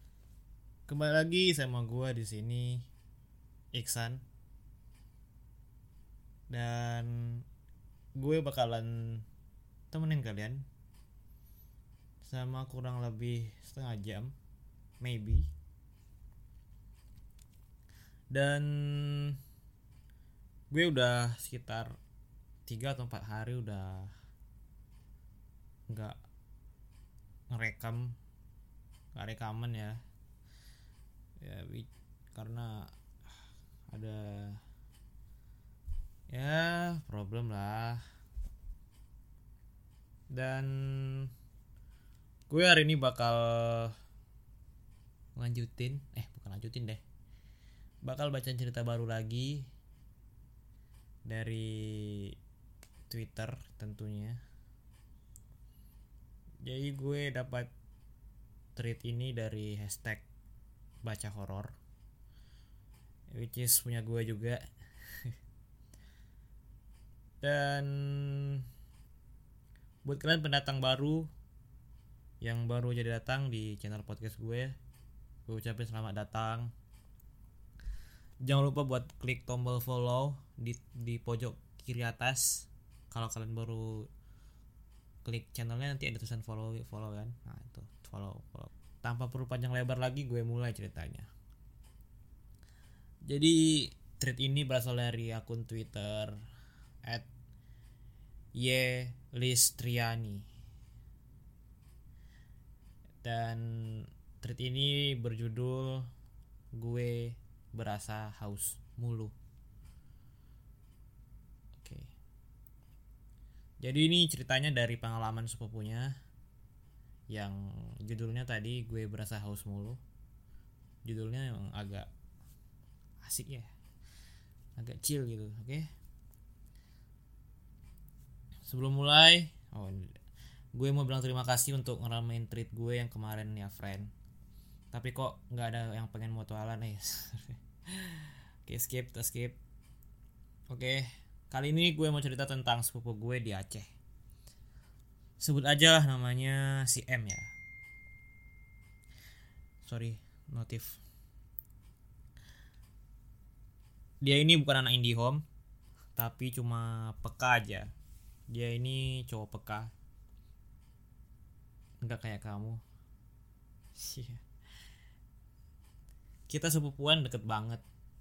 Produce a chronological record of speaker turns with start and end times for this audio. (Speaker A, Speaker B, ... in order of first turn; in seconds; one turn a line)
Speaker A: 0.9-2.9
Speaker A: 3.7-4.2
Speaker A: 6.5-7.4
Speaker A: 8.2-9.2
Speaker A: 9.9-10.6
Speaker A: 12.2-14.3
Speaker A: 15.0-15.5
Speaker A: 18.3-19.4
Speaker A: 20.7-21.9
Speaker A: 22.7-24.1
Speaker A: 25.9-26.2
Speaker A: 27.5-28.1
Speaker A: 29.1-30.0
Speaker A: 31.4-32.9
Speaker A: 33.9-34.6
Speaker A: 36.3-38.0
Speaker A: 40.3-41.3
Speaker A: 42.5-43.9
Speaker A: 45.4-47.0
Speaker A: 48.0-49.7
Speaker A: 51.3-52.4
Speaker A: 53.1-54.4
Speaker A: 56.6-57.7
Speaker A: 58.8-60.2
Speaker A: 61.0-61.8
Speaker A: 63.3-64.7
Speaker A: 67.4-68.6
Speaker A: 70.0-71.3
Speaker A: 72.4-74.7
Speaker A: 75.5-76.7
Speaker A: 78.4-84.1
Speaker A: 85.2-91.3
Speaker A: 93.3-96.4
Speaker A: 98.5-100.5
Speaker A: 103.2-106.1
Speaker A: 106.8-109.3
Speaker A: 111.8-112.1
Speaker A: 113.8-116.1
Speaker A: 117.3-120.0
Speaker A: 121.1-122.1
Speaker A: 123.2-123.7
Speaker A: 124.8-125.9
Speaker A: 128.7-130.2
Speaker A: 130.8-134.1
Speaker A: 134.9-139.6
Speaker A: 140.7-143.9
Speaker A: 145.4-147.5
Speaker A: 149.8-151.0
Speaker A: 154.2-155.4
Speaker A: 156.2-157.9
Speaker A: 158.5-159.9
Speaker A: 162.0-162.8
Speaker A: 164.0-164.4
Speaker A: 166.5-167.8